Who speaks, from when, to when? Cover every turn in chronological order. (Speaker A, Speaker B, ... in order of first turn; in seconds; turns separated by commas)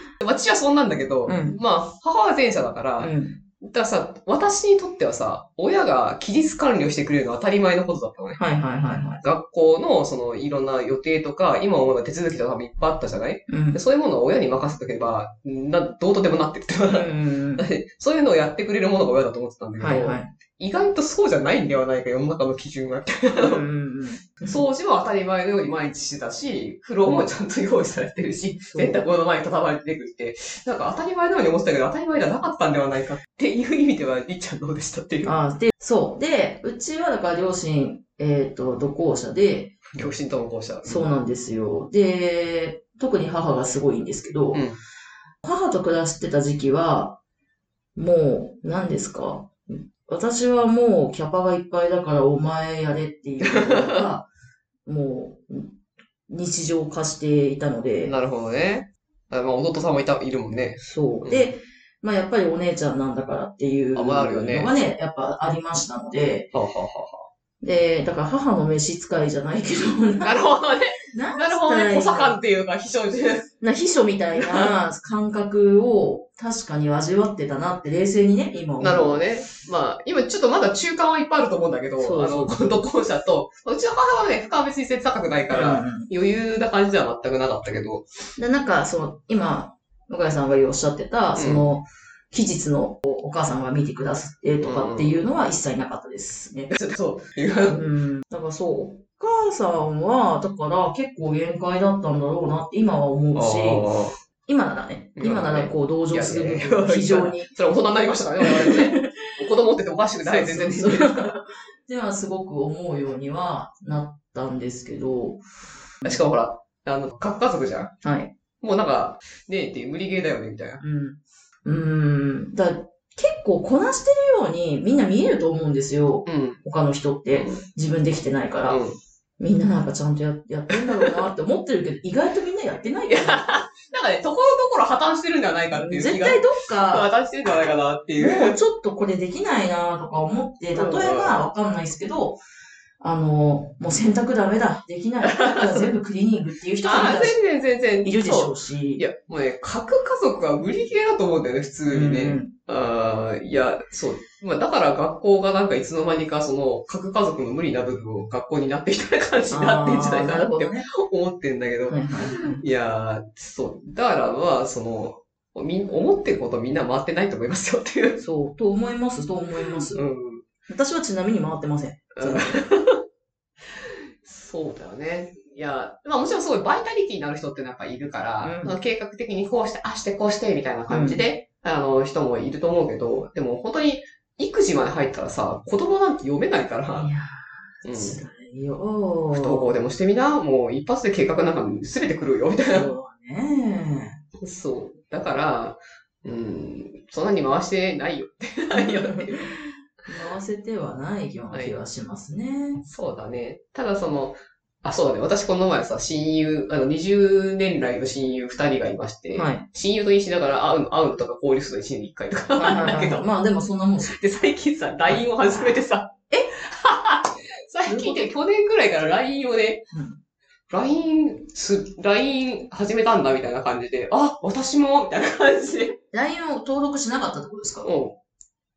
Speaker A: 0.2-3.1, Speaker B: 1.3-1.6, Speaker B: 3.0-3.4, Speaker A: 3.6-8.4, Speaker B: 8.4-9.2, Speaker A: 9.2-23.6, Speaker B: 13.5-13.8, Speaker B: 16.9-17.7, Speaker B: 19.8-20.3, Speaker B: 23.4-24.6, Speaker A: 24.5-35.3, Speaker B: 28.7-29.0, Speaker B: 35.2-39.8, Speaker A: 39.9-41.1, Speaker B: 40.8-44.6, Speaker A: 44.5-44.8, Speaker B: 45.5-47.2, Speaker B: 48.0-54.3, Speaker B: 54.9-55.8, Speaker B: 56.3-58.1, Speaker A: 58.0-61.5, Speaker B: 60.8-66.5, Speaker A: 63.9-64.8, Speaker A: 66.5-67.3, Speaker B: 67.6-70.4, Speaker A: 70.2-73.5, Speaker B: 71.1-72.4, Speaker B: 73.6-79.2, Speaker A: 74.3-74.7, Speaker A: 78.8-88.0, Speaker B: 82.0-82.8, Speaker B: 85.5-86.1, Speaker B: 88.4-96.7, Speaker A: 91.3-91.7, Speaker A: 94.6-95.3, Speaker A: 96.7-97.8, Speaker B: 97.7-103.9, Speaker A: 103.3-104.2, Speaker B: 104.5-107.5, Speaker A: 105.2-111.3, Speaker B: 108.4-109.3, Speaker B: 110.2-115.4, Speaker B: 116.0-116.3, Speaker A: 116.0-117.9, Speaker B: 118.0-118.3, Speaker A: 118.6-120.8, Speaker B: 120.8-128.8, Speaker A: 126.2-126.6, Speaker A: 127.3-127.6, Speaker A: 128.7-129.0, Speaker B: 129.4-133.4, Speaker A: 130.7-131.2, Speaker A: 133.1-138.6, Speaker B: 135.7-137.1, Speaker B: 138.2-142.4, Speaker A: 140.7-141.4, Speaker B: 143.0-147.4, Speaker A: 145.2-145.9, Speaker A: 146.8-168.2, Speaker B: 148.0-149.1, Speaker B: 151.9-152.5, Speaker B: 159.5-160.9, Speaker B: 161.9-162.6, Speaker B: 168.2-170.0, Speaker A: 169.7-170.4, Speaker B: 170.7-172.6, Speaker A: 172.2-173.0, Speaker A: 173.7-187.1, Speaker B: 178.4-178.8, Speaker B: 180.9-181.2, Speaker B: 186.9-189.8, Speaker A: 187.8-188.2, Speaker A: 189.3-192.9, Speaker B: 192.7-194.2, Speaker A: 194.4-199.5, Speaker B: 198.7-202.8, Speaker A: 202.8-213.3, Speaker B: 209.3-209.7, Speaker B: 212.6-214.2, Speaker A: 214.1-219.9, Speaker B: 217.9-218.3, Speaker B: 219.9-220.2, Speaker A: 220.7-226.0, Speaker B: 226.1-227.9, Speaker A: 227.8-228.2